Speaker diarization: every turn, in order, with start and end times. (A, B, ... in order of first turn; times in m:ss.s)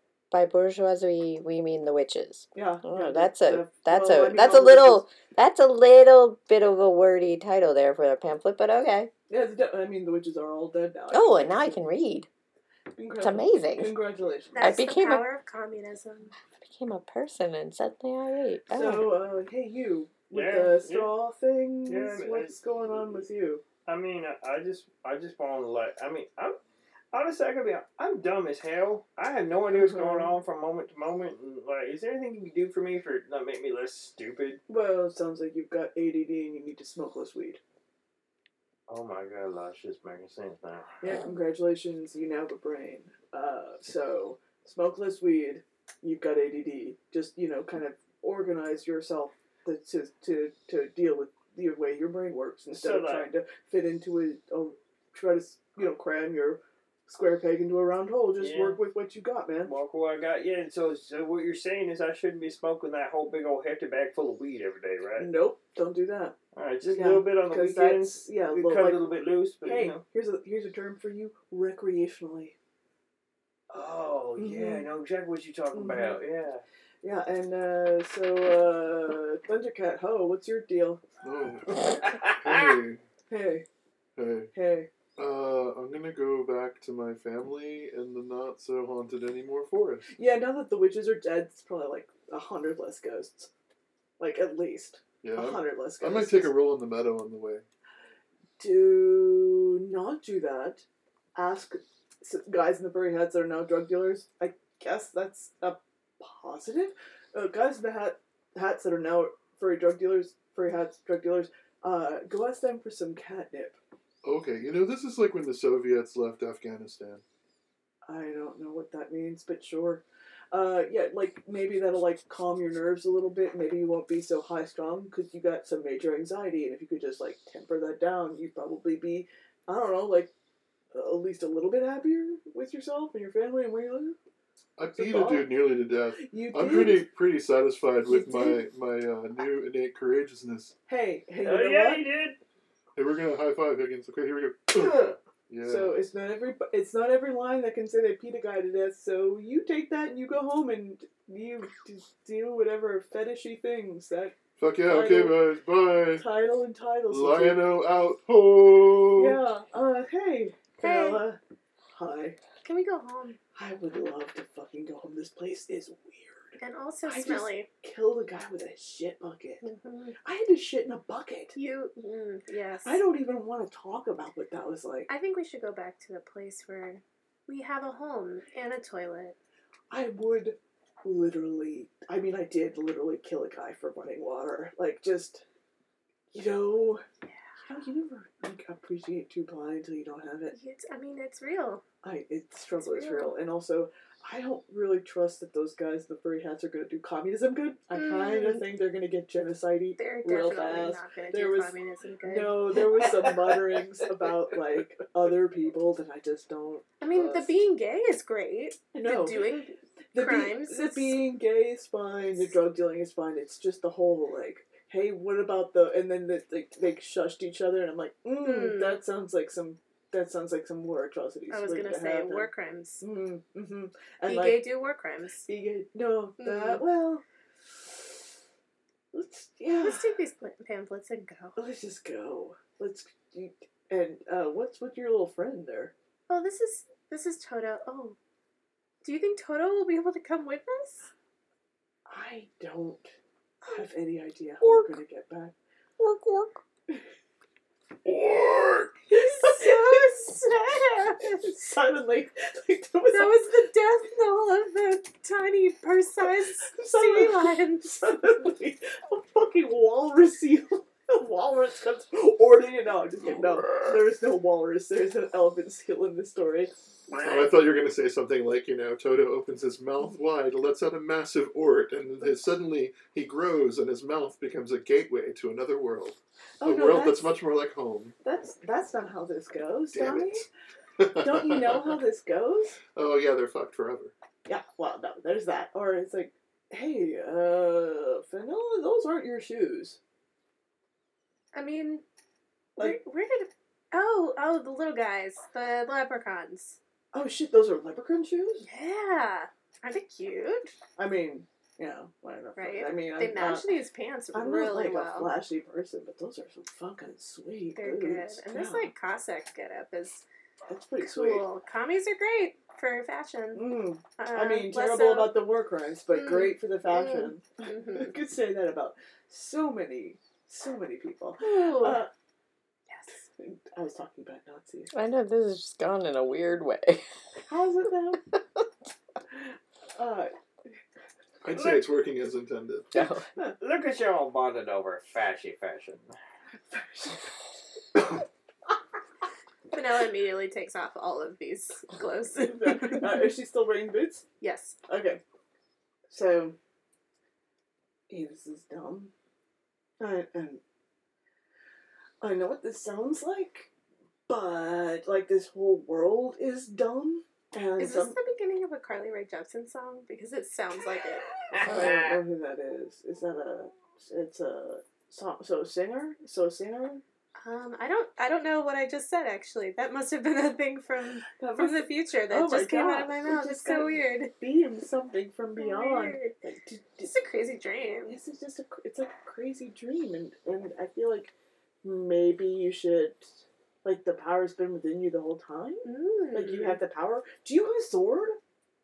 0:00.3-0:09.1 A
0:02.5-0:05.1 B
0:09.3-0:11.9 B
0:11.1-0:12.3 A
0:13.0-0:14.8 B
0:13.2-0:14.0 A
0:14.6-0:16.3 C
0:14.6-0:15.2 A
0:16.6-0:19.2 A
0:18.7-0:23.6 B
0:20.3-0:21.2 D
0:21.9-0:22.6 D
0:23.9-0:26.6 D
0:27.1-0:34.6 D
0:29.7-0:30.4 B
0:34.7-0:37.6 B
0:38.9-0:41.0 D
0:41.0-0:59.7 B
0:52.7-0:53.3 D
0:58.4-0:58.8 D
0:59.6-1:05.3 D
1:05.2-1:12.6 B
1:06.6-1:10.0 D
1:13.7-1:16.6 D
1:14.4-1:14.9 B
1:15.7-1:16.2 B
1:17.0-1:21.0 B
1:21.2-1:23.0 E
1:22.1-1:22.7 D
1:23.3-1:23.7 B
1:24.2-1:24.5 E
1:24.5-1:24.9 B
1:25.2-1:30.1 E
1:30.2-1:33.5 B
1:34.2-1:36.6 B
1:35.2-1:37.6 E
1:38.6-1:53.8 B
1:54.2-1:57.2 E
1:58.1-2:10.3 B
2:10.9-2:14.2 B
2:14.8-2:20.8 E
2:15.0-2:17.1 B
2:18.1-2:18.6 B
2:20.9-2:22.1 B
2:21.4-2:22.4 D
2:23.0-2:26.0 E
2:25.6-2:35.5 B
2:34.6-2:36.2 E
2:36.2-2:37.7 B
2:37.1-2:39.4 E
2:39.2-2:41.4 B
2:40.8-2:41.2 C
2:42.0-2:42.4 B
2:42.6-2:43.4 C
2:43.6-2:49.7 B
2:46.6-2:47.7 C
2:49.6-2:50.2 C
2:50.2-2:51.6 B
2:51.6-2:53.0 C
2:52.8-2:55.1 B
2:55.1-2:59.4 C
2:59.9-3:05.4 B
3:06.3-3:07.0 B
3:07.6-3:10.6 B
3:10.5-3:11.8 C
3:12.0-3:21.7 B
3:12.8-3:13.4 C
3:18.0-3:18.7 C
3:20.0-3:22.8 C
3:22.2-3:27.5 B
3:27.0-3:31.2 C
3:28.9-3:29.5 B
3:30.1-3:44.6 B
3:38.4-3:39.0 C
3:41.5-3:43.0 C
3:44.2-3:45.5 C
3:45.5-3:47.2 B
3:46.4-3:46.8 C
3:49.1-3:50.1 B
3:49.8-3:51.6 C
3:51.6-3:55.9 B
3:56.3-3:58.2 C
3:59.0-4:01.1 C
4:02.1-4:03.1 B
4:03.6-4:05.6 B
4:08.0-4:08.9 E
4:09.1-4:11.5 C
4:09.1-4:10.1 B
4:11.2-4:13.4 B
4:13.1-4:18.2 C
4:16.6-4:26.7 B
4:27.2-4:38.2 E
4:36.6-4:37.3 B
4:38.2-4:40.5 B
4:39.9-4:40.5 E
4:41.0-4:42.0 E
4:41.2-4:42.8 B
4:43.0-4:44.1 E
4:44.5-4:50.0 B
4:51.5-4:52.0 C
4:52.8-4:56.8 C
4:57.1-4:58.7 B
4:58.6-5:00.8 C
5:01.0-5:03.7 B
5:02.6-5:05.3 C
5:04.3-5:08.9 B
5:07.8-5:10.2 C
5:10.7-5:11.4 B
5:11.0-5:15.4 C
5:13.6-5:22.1 B
5:16.1-5:18.2 C
5:21.4-5:22.0 C
5:22.9-5:23.2 C
5:23.3-5:24.9 B
5:24.9-5:27.0 A
5:27.5-5:28.3 B
5:30.0-5:30.3 B
5:31.4-5:32.9 E
5:31.5-5:31.9 D
5:32.9-5:33.3 A
5:33.6-5:36.1 D
5:36.7-5:37.3 B
5:39.7-5:43.3 C
5:42.4-5:44.2 B
5:44.4-5:44.8 C
5:44.9-5:45.2 B
5:46.1-5:46.6 B
5:48.1-5:49.1 B
5:50.0-5:50.6 B
5:52.2-5:53.7 B
5:54.3-5:58.2 B
5:57.8-6:01.3 C
6:01.6-6:07.0 B
6:07.4-6:14.3 C
6:11.4-6:17.1 B
6:15.6-6:16.4 C
6:17.0-6:18.2 C
6:18.1-6:28.4 B
6:25.8-6:26.8 C